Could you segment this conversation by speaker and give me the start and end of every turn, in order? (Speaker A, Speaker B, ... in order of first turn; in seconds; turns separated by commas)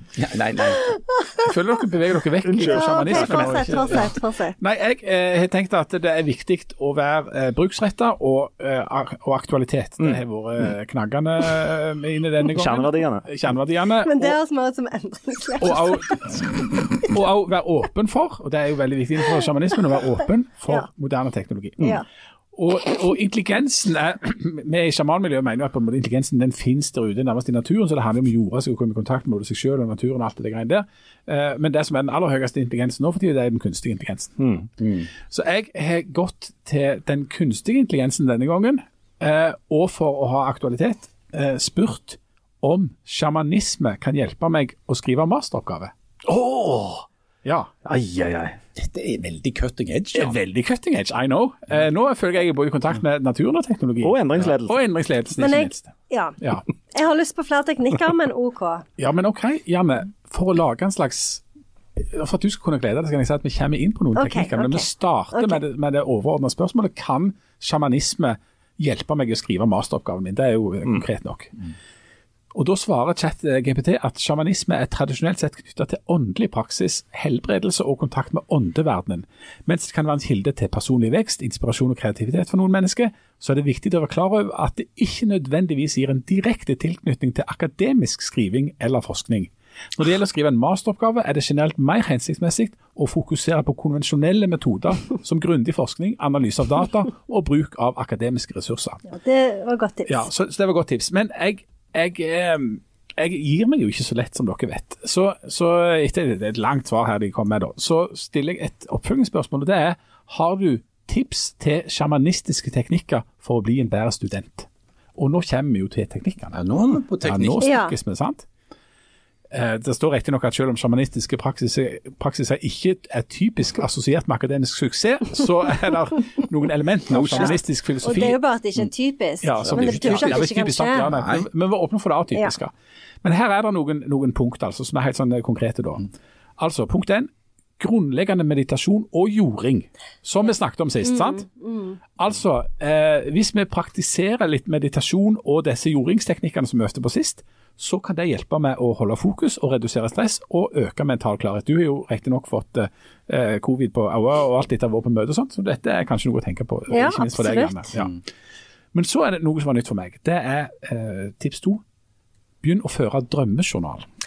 Speaker A: 0.1-0.8, Speaker B: 1.4-14.4, Speaker C: 2.4-3.6, Speaker D: 2.6-4.6, Speaker C: 12.5-13.3, Speaker D: 14.0-16.3, Speaker B: 15.6-34.4, Speaker C: 34.4-34.7, Speaker B: 35.1-45.9, Speaker C: 46.2-47.0, Speaker B: 47.4-47.7, Speaker C: 47.8-48.6, Speaker A: 48.8-50.4, Speaker B: 50.1-56.6, Speaker C: 54.0-54.8, Speaker D: 55.4-56.4, Speaker D: 56.9-58.9, Speaker B: 59.0-61.4, Speaker B: 62.0-71.5, Speaker D: 64.2-65.6, Speaker B: 72.5-99.0, Speaker D: 99.1-100.2, Speaker B: 100.0-116.6, Speaker A: 116.5-117.6, Speaker B: 117.2-118.4, Speaker D: 117.6-117.9, Speaker B: 119.5-128.4, Speaker A: 127.1-127.5, Speaker D: 127.3-131.1, Speaker B: 129.4-132.7, Speaker A: 129.6-131.5, Speaker B: 133.2-141.5, Speaker D: 141.2-142.0, Speaker B: 142.2-158.2, Speaker D: 156.9-157.9, Speaker B: 158.9-161.8, Speaker B: 162.6-164.1